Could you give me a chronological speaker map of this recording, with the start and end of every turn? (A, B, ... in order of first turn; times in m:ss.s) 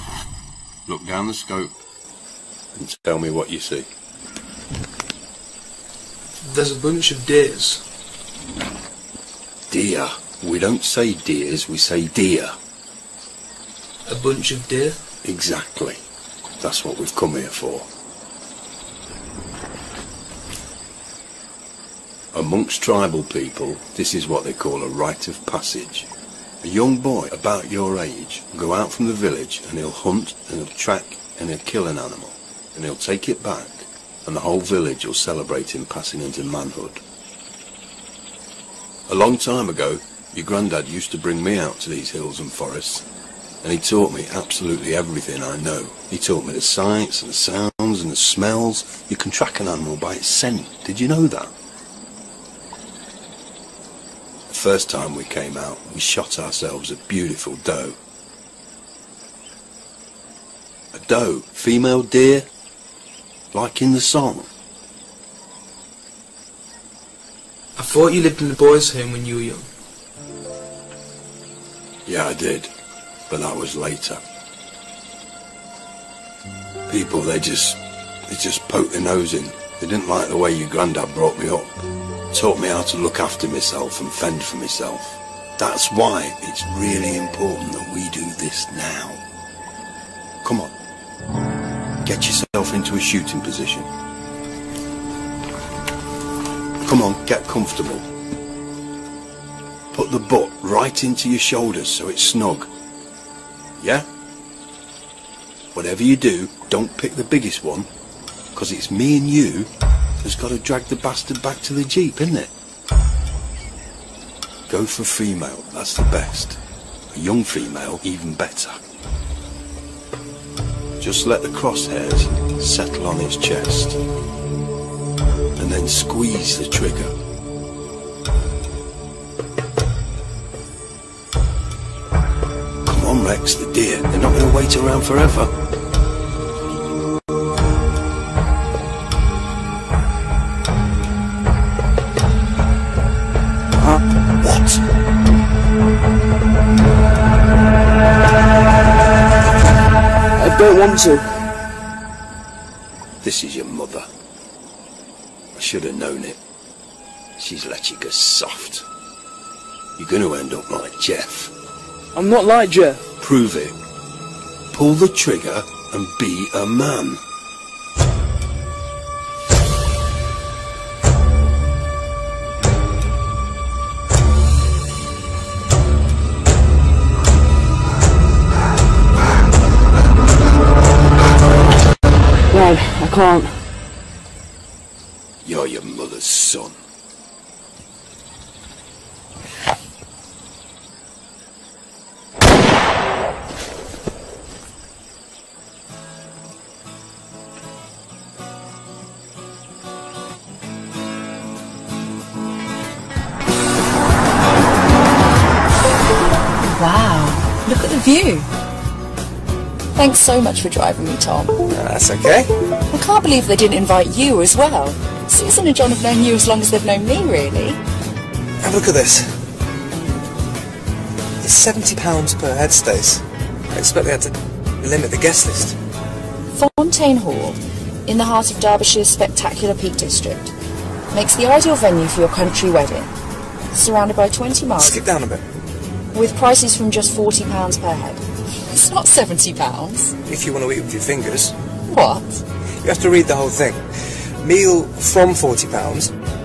0:00.9-0:01.7 A
0:02.7-0:03.9 A
0:06.4-0:07.8 B
0:09.7-0:12.6 A
0:14.1-0:15.0 B
0:15.2-0:16.0 A
0:16.6-0:17.9 A
0:22.3-0:26.1 A
0:26.6-0:37.0 A
0:39.1-0:43.0 A
0:43.6-0:51.5 A
0:54.5-0:58.0 A
1:00.9-1:02.5 A
1:03.5-1:04.5 A
1:07.8-1:09.7 B
1:12.1-1:12.7 A
1:13.3-1:14.2 A
1:16.9-1:21.8 A
1:22.3-1:29.2 A
1:30.4-1:30.7 A
1:32.0-1:33.9 A
1:36.8-1:38.1 A
1:39.9-1:42.7 A
1:43.8-1:44.1 A
1:45.7-1:47.9 A
1:48.6-1:49.7 A
1:50.2-1:52.5 A
1:54.7-1:56.6 A
1:57.1-1:58.8 A
2:01.0-2:04.0 A
2:05.6-2:07.1 A
2:12.8-2:15.5 A
2:24.4-2:24.8 A
2:30.4-2:31.3 B
2:33.2-2:34.1 A
2:35.6-2:36.4 A
2:37.4-2:38.9 A
2:40.0-2:41.5 A
2:42.1-2:43.0 B
2:43.2-2:43.8 A
2:44.7-2:47.2 A
3:02.5-3:03.6 B
3:05.4-3:06.8 A
3:26.7-3:28.5 C
3:30.0-3:31.6 C
3:31.7-3:32.5 D
3:32.9-3:37.8 C
3:38.6-3:39.4 D
3:41.4-3:45.8 D
3:46.5-3:50.5 C
3:51.1-3:53.1 C
3:53.7-3:55.0 C
3:54.8-3:55.4 D
3:56.1-4:00.2 C
4:00.2-4:01.6 D
4:01.9-4:02.4 C
4:02.8-4:06.1 D